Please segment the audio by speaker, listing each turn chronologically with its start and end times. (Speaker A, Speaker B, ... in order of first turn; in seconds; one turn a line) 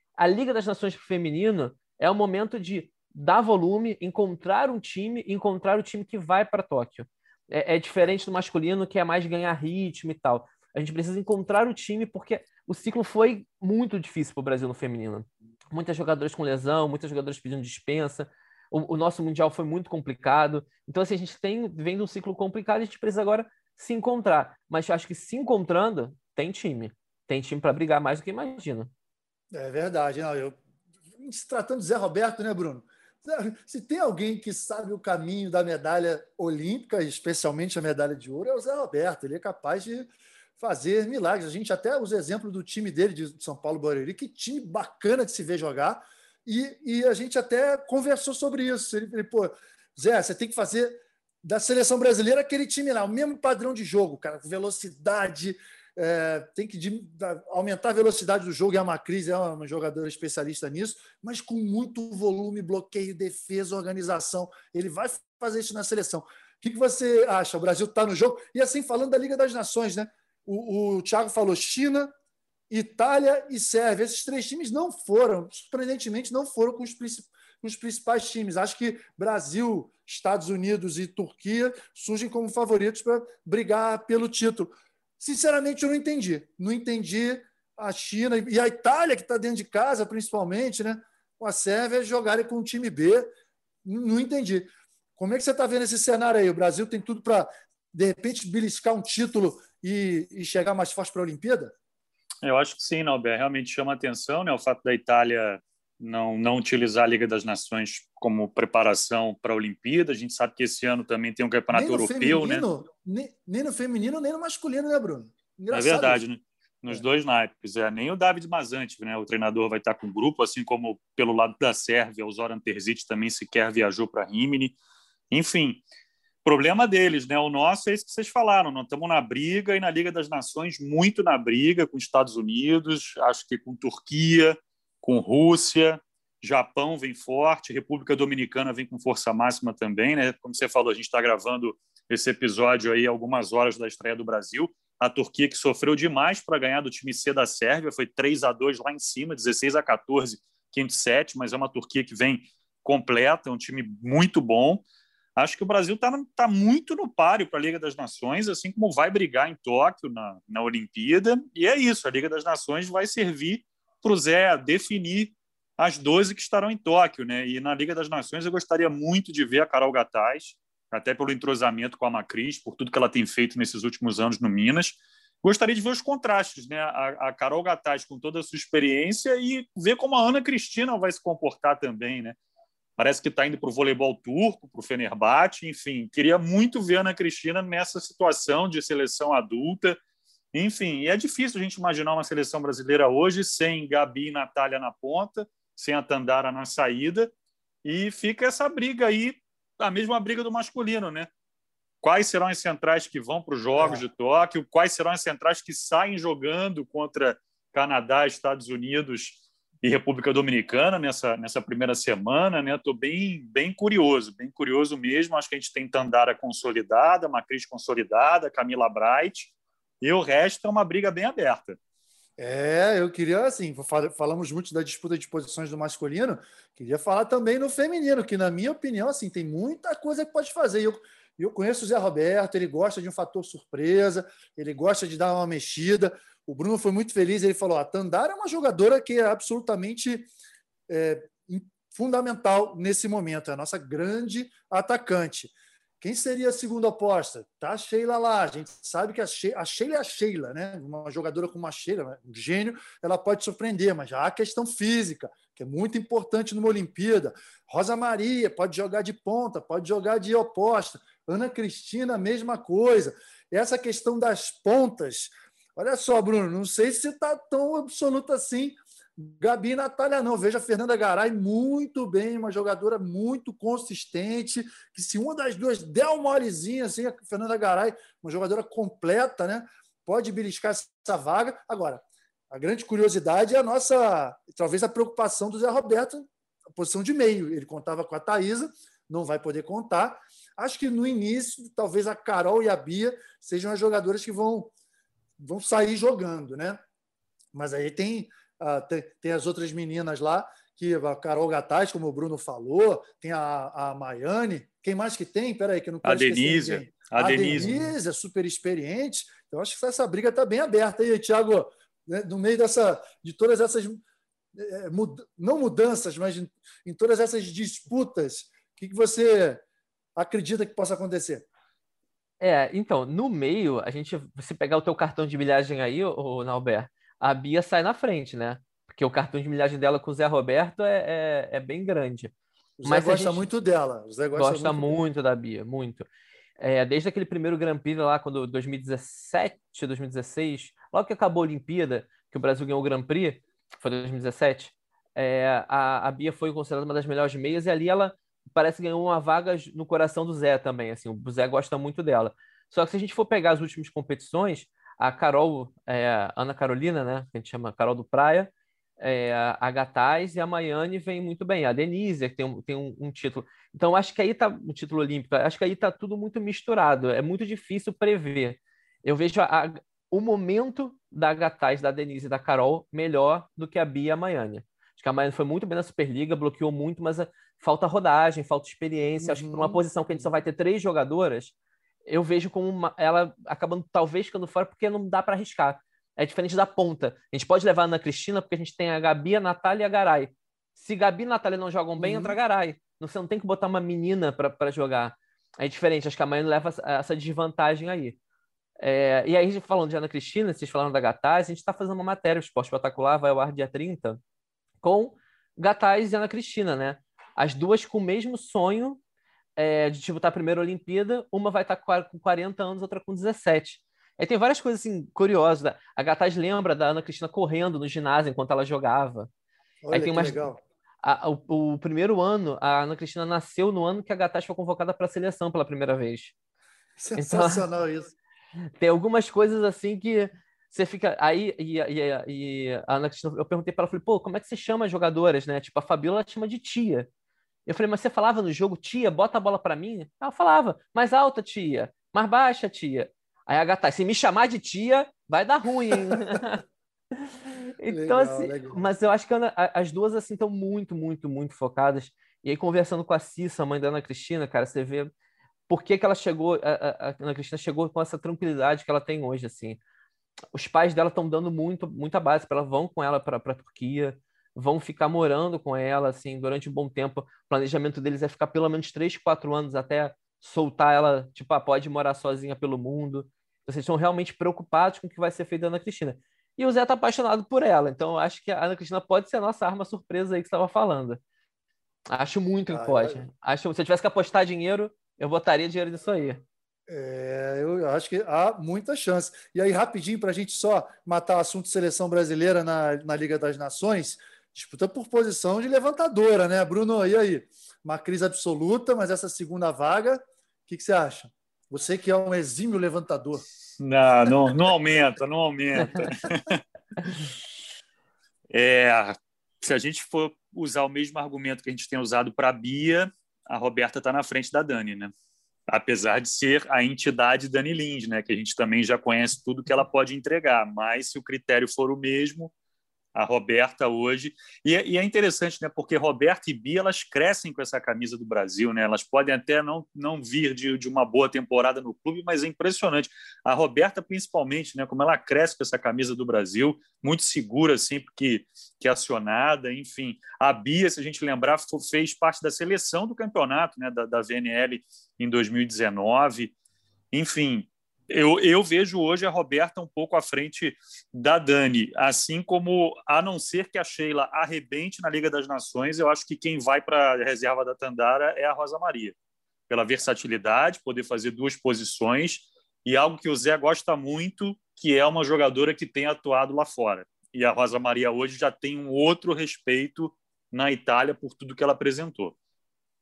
Speaker A: 0.2-28.9
Speaker B: 29.5-30.6
Speaker B: 31.2-72.1
Speaker B: 72.7-93.3
Speaker B: 93.8-101.7
Speaker C: 102.4-112.7
Speaker B: 111.7-116.2
Speaker C: 115.7-124.8
Speaker C: 125.3-125.8
Speaker C: 126.4-154.8
Speaker C: 155.3-182.4
Speaker C: 183.0-190.0
Speaker C: 190.5-197.3
Speaker C: 197.8-201.3
Speaker C: 202.0-221.8
Speaker B: 203.8-204.0
Speaker B: 222.4-240.3
Speaker B: 240.9-294.7
Speaker B: 295.4-296.8
Speaker B: 297.5-314.0
Speaker C: 306.0-307.7
Speaker B: 314.5-319.6
Speaker B: 320.1-321.4
Speaker A: 322.4-332.3
Speaker B: 332.8-335.0
Speaker A: 332.9-333.5
Speaker A: 334.3-336.1
Speaker A: 336.6-381.5
Speaker B: 379.2-380.2
Speaker A: 382.1-398.2
Speaker B: 392.0-392.4
Speaker A: 398.8-404.2
Speaker A: 404.8-409.0
Speaker A: 409.6-419.3
Speaker B: 419.8-420.6
Speaker A: 419.9-420.5
Speaker A: 421.0-426.3
Speaker B: 427.0-428.1
Speaker A: 427.1-427.6
Speaker A: 428.8-437.1
Speaker A: 437.7-446.6
Speaker A: 447.8-455.1
Speaker B: 447.9-448.9
Speaker A: 455.7-459.8
Speaker A: 460.5-481.2
Speaker A: 482.1-486.4
Speaker B: 482.7-483.2
Speaker B: 486.9-503.4
Speaker C: 503.8-506.6
Speaker C: 508.5-515.1
Speaker C: 515.7-522.5
Speaker C: 523.1-546.5
Speaker C: 547.1-559.1
Speaker C: 559.7-572.3